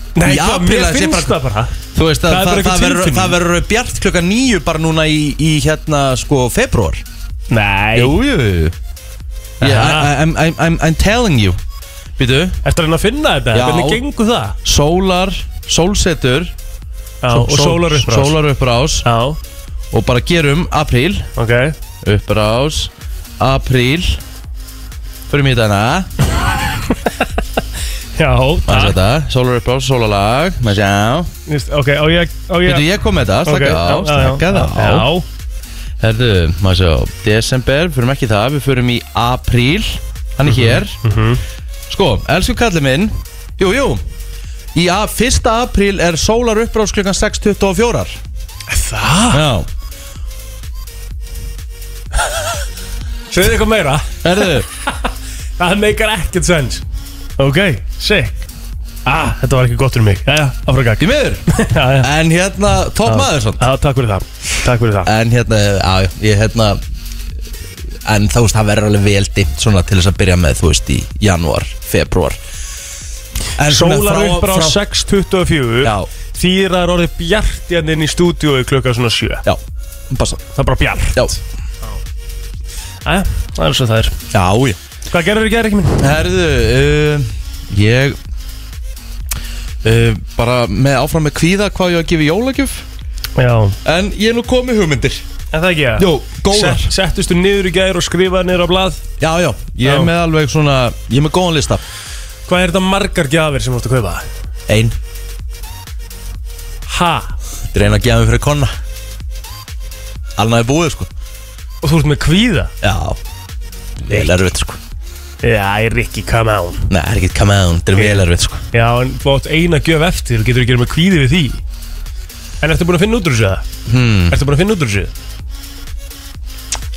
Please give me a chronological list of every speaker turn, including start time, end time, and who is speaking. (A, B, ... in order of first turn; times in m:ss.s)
0:00.2-0:03.4 A
0:00.2-0:07.0 B
0:07.5-0:08.2 A
0:08.0-0:08.8 B
0:09.6-0:11.6 B
0:09.6-0:10.1 A
0:12.2-0:12.6 B
0:12.6-0:14.6 A
0:13.5-0:14.0 B
0:14.6-0:16.5 B
0:17.2-0:18.4 A
0:17.3-0:19.1 B
0:19.0-0:19.4 A
0:19.9-0:21.3 B
0:21.4-0:21.8 A
0:22.0-0:24.2 B
0:25.3-0:26.1 B
0:28.2-0:29.0 A
0:28.7-0:31.3 B
0:31.5-0:32.9 A
0:32.6-0:35.1 B
0:33.4-0:35.3 A
0:36.0-0:41.0 B
0:40.4-0:41.4 A
0:41.9-0:44.0 B
0:44.7-0:48.2 B
0:48.7-0:49.4 A
0:49.3-0:49.7 B
0:53.3-0:56.8 A
0:54.2-0:54.7 B
0:57.4-0:58.3 A
0:59.0-1:02.1 A
1:01.0-1:03.6 B
1:03.1-1:05.1 A
1:05.0-1:06.8 B
1:08.0-1:12.4 B
1:13.6-1:14.8 B
1:13.6-1:19.4 A
1:15.8-1:16.1 B
1:19.4-1:20.5 B
1:20.6-1:22.0 A
1:23.0-1:24.2 A
1:24.3-1:24.8 B
1:25.1-1:26.1 A
1:26.0-1:28.2 B
1:29.8-1:32.9 B
1:33.4-1:33.8 A
1:33.8-1:35.2 B
1:35.5-1:39.0 A
1:36.0-1:36.9 B
1:39.2-1:41.8 B
1:39.8-1:40.1 A
1:42.5-1:44.2 A
1:44.7-1:45.0 B
1:46.9-1:47.4 A
1:47.7-1:48.7 B
1:50.4-1:51.1 B
1:51.8-1:52.7 A
1:52.8-1:53.2 B
1:54.0-1:54.8 B
1:54.1-1:54.4 A
1:55.4-1:56.9 A
1:56.9-1:58.6 B
1:58.0-2:01.6 A
2:02.6-2:03.6 A
2:03.9-2:04.4 B
2:04.3-2:05.1 A